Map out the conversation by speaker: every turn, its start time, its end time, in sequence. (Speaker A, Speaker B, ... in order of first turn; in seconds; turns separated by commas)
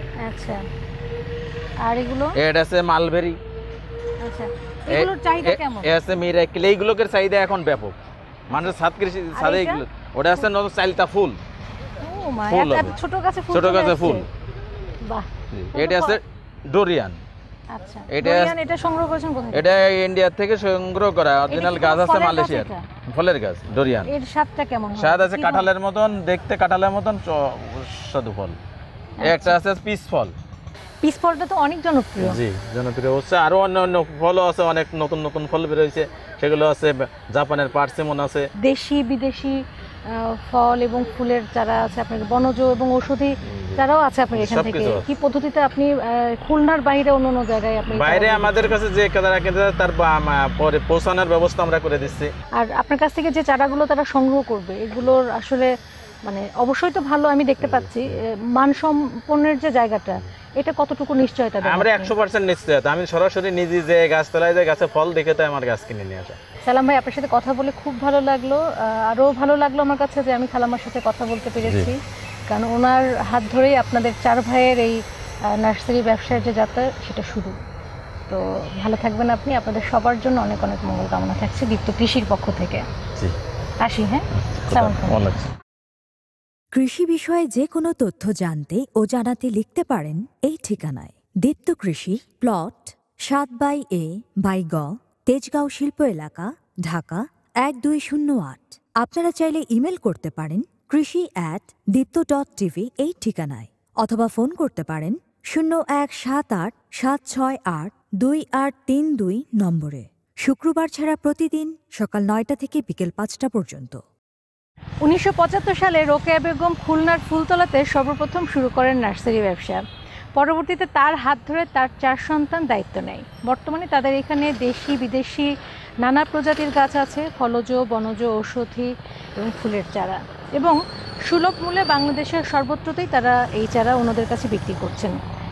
Speaker A: 0.2-0.6, Speaker A: 1.8-2.4, Speaker B: 2.4-3.4, Speaker A: 4.2-6.0, Speaker B: 4.9-8.0, Speaker B: 8.5-11.4, Speaker A: 9.3-9.8, Speaker A: 12.0-14.3, Speaker B: 12.5-12.9, Speaker B: 13.5-14.3, Speaker A: 15.1-16.2, Speaker B: 15.5-17.2, Speaker A: 17.7-19.7, Speaker B: 18.1-18.6, Speaker B: 19.5-24.1, Speaker A: 21.5-22.8, Speaker A: 24.1-25.7, Speaker B: 25.0-28.6, Speaker A: 29.2-29.6, Speaker B: 29.2-30.4, Speaker A: 31.0-32.4, Speaker B: 32.2-38.5, Speaker A: 38.6-48.8, Speaker B: 43.5-45.1, Speaker B: 47.9-52.3, Speaker A: 52.5-55.7, Speaker A: 56.2-62.1, Speaker B: 57.6-58.2, Speaker B: 61.6-66.4, Speaker A: 66.6-72.0, Speaker B: 71.6-71.9, Speaker A: 72.5-75.0, Speaker A: 75.5-77.6, Speaker A: 78.3-82.8, Speaker A: 83.8-85.1, Speaker B: 84.4-85.5, Speaker C: 86.7-114.0, Speaker A: 115.0-119.8, Speaker A: 120.4-125.5, Speaker A: 126.0-135.2